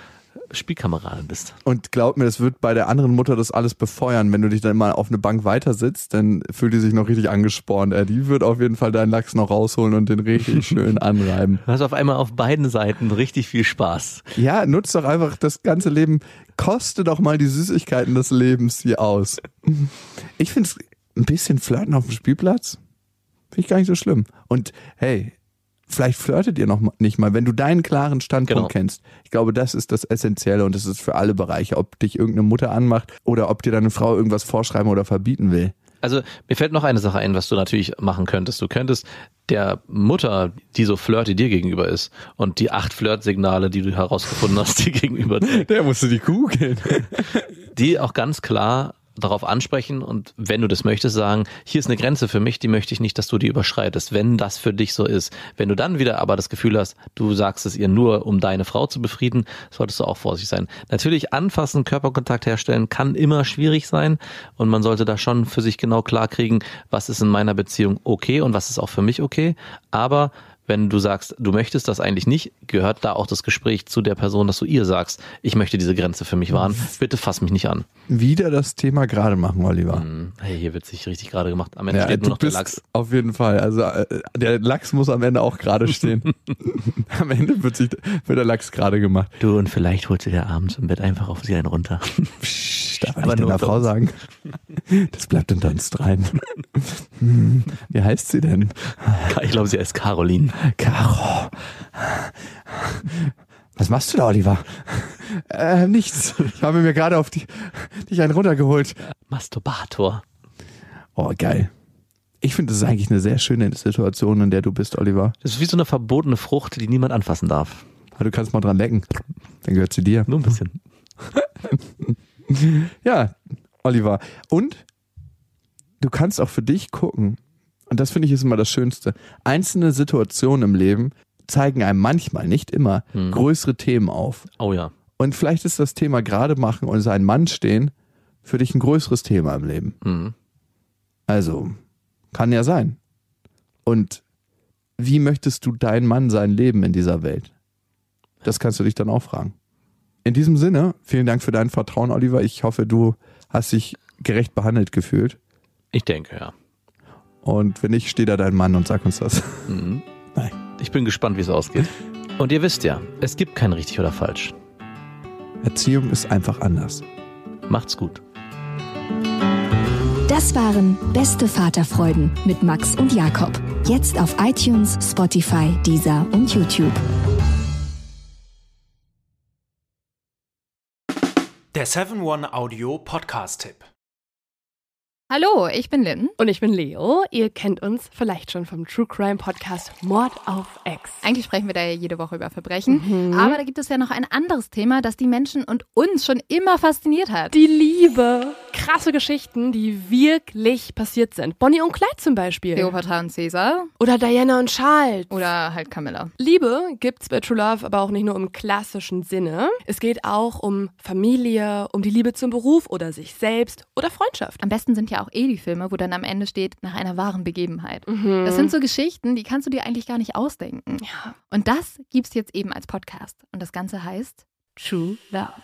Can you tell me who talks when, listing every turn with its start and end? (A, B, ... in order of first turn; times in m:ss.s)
0:00.5-0:01.6 A
0:01.6-0:11.6 B
0:11.6-0:14.2 A
0:14.4-0:22.8 B
0:23.5-0:25.3 B
0:25.9-0:35.7 B
0:28.5-0:28.7 A
0:36.0-0:45.7 A
0:45.4-0:47.4 B
0:47.7-1:17.8 A
1:18.1-1:20.0 B
1:19.9-1:22.8 A
1:21.9-1:29.3 B
1:29.4-1:32.4 A
1:32.4-1:34.2 B
1:33.0-1:33.9 A
1:34.8-1:39.3 B
1:39.2-1:40.6 A
1:40.6-1:49.0 B
1:49.3-1:50.2 A
1:51.2-1:51.7 B
1:52.4-1:55.3 B
1:55.4-1:57.8 A
1:58.2-1:59.1 B
1:59.6-2:00.3 B
2:00.3-2:00.8 A
2:01.3-2:04.8 B
2:06.0-2:14.5 B
2:13.1-2:13.4 A
2:14.6-2:14.9 A
2:15.2-2:17.9 B
2:18.4-2:20.0 B
2:20.0-2:20.3 A
2:21.3-2:21.8 B
2:22.3-2:23.0 B
2:23.8-2:24.2 B
2:25.0-2:27.5 B
2:28.4-2:29.5 B
2:30.2-2:35.4 B
2:35.9-2:36.5 A
2:37.4-2:39.7 B
2:39.7-2:40.0 A
2:40.7-2:44.6 A
2:45.6-2:47.0 B
2:47.7-2:48.2 A
2:50.3-2:57.0 C
3:01.7-3:03.9 D
3:05.3-3:06.3 E
3:06.4-3:11.2 F
3:11.2-3:17.6 E
3:12.9-3:13.6 F
3:17.5-3:23.0 F
3:22.7-3:23.9 E
3:24.0-3:25.3 F
3:25.3-3:26.3 E
3:26.4-3:34.6 F
3:34.6-3:45.6 E
3:38.1-3:38.7 F
3:41.0-3:41.3 F